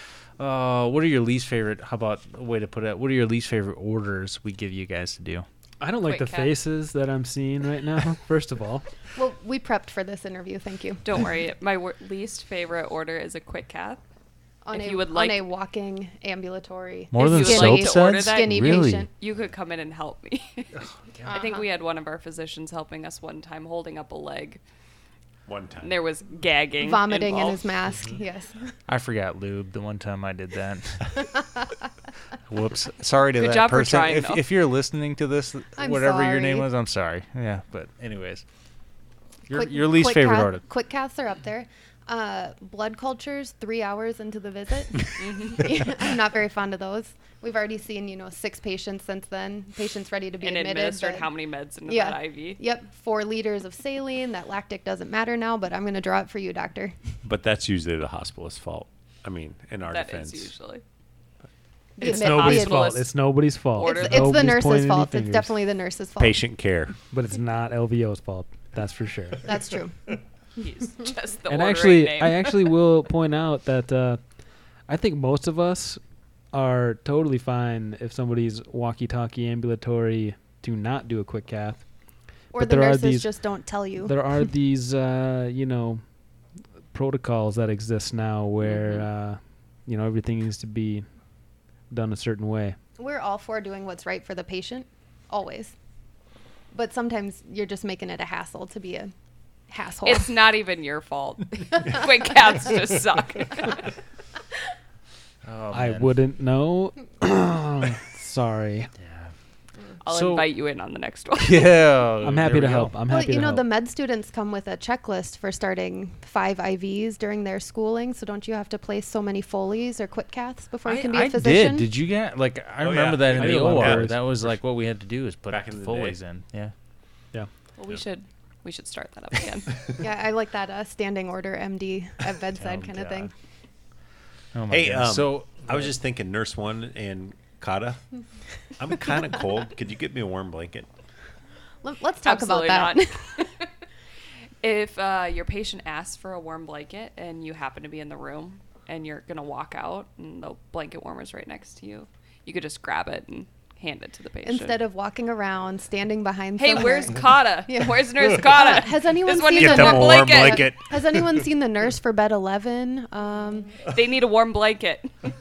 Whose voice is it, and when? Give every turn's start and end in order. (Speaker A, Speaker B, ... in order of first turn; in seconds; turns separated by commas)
Speaker A: 0.4-5.5, Speaker B: 5.8-8.8, Speaker C: 6.0-6.5, Speaker D: 9.1-11.0, Speaker C: 11.0-14.0, Speaker D: 14.6-19.1, Speaker C: 14.7-15.4, Speaker A: 17.1-19.1, Speaker C: 17.2-24.6, Speaker A: 20.7-21.3, Speaker D: 21.3-21.6, Speaker E: 25.5-26.0, Speaker C: 25.8-27.6, Speaker D: 26.8-28.8, Speaker A: 28.9-31.3, Speaker A: 32.5-38.4, Speaker C: 33.4-34.4, Speaker D: 35.8-36.7, Speaker A: 39.5-40.6, Speaker D: 39.5-51.3, Speaker C: 45.2-45.6, Speaker C: 50.4-52.6, Speaker D: 51.9-57.0, Speaker E: 57.2-60.5, Speaker C: 59.9-60.8, Speaker D: 62.0-63.0, Speaker C: 62.0-63.1, Speaker B: 62.0-65.5, Speaker C: 63.8-64.4, Speaker D: 63.8-66.4, Speaker E: 66.2-66.9, Speaker B: 67.1-69.5, Speaker D: 69.4-70.1, Speaker C: 70.6-72.7, Speaker B: 71.5-74.2, Speaker B: 74.9-76.0, Speaker B: 76.5-81.8, Speaker D: 82.5-84.1, Speaker B: 82.5-83.3, Speaker B: 84.0-86.0, Speaker B: 86.9-91.1, Speaker C: 88.7-89.0, Speaker B: 91.9-92.8, Speaker D: 93.0-95.7, Speaker D: 96.7-99.1, Speaker D: 99.7-100.3, Speaker C: 100.0-103.9, Speaker A: 105.4-106.1, Speaker B: 105.7-108.9, Speaker A: 109.0-109.3, Speaker C: 110.0-111.8, Speaker A: 110.1-110.5, Speaker A: 111.3-113.0, Speaker B: 112.2-113.7, Speaker D: 113.1-121.9, Speaker A: 120.8-126.7, Speaker E: 122.8-124.5, Speaker B: 123.3-124.2, Speaker E: 125.5-126.2, Speaker C: 127.8-129.8, Speaker D: 130.0-133.3, Speaker A: 132.5-133.3, Speaker A: 134.5-135.9, Speaker E: 134.7-138.0, Speaker E: 138.8-140.9, Speaker D: 141.8-143.5, Speaker C: 142.2-143.6, Speaker C: 144.6-154.8, Speaker D: 154.4-163.8, Speaker C: 156.6-160.8, Speaker E: 159.6-161.4, Speaker C: 163.8-165.1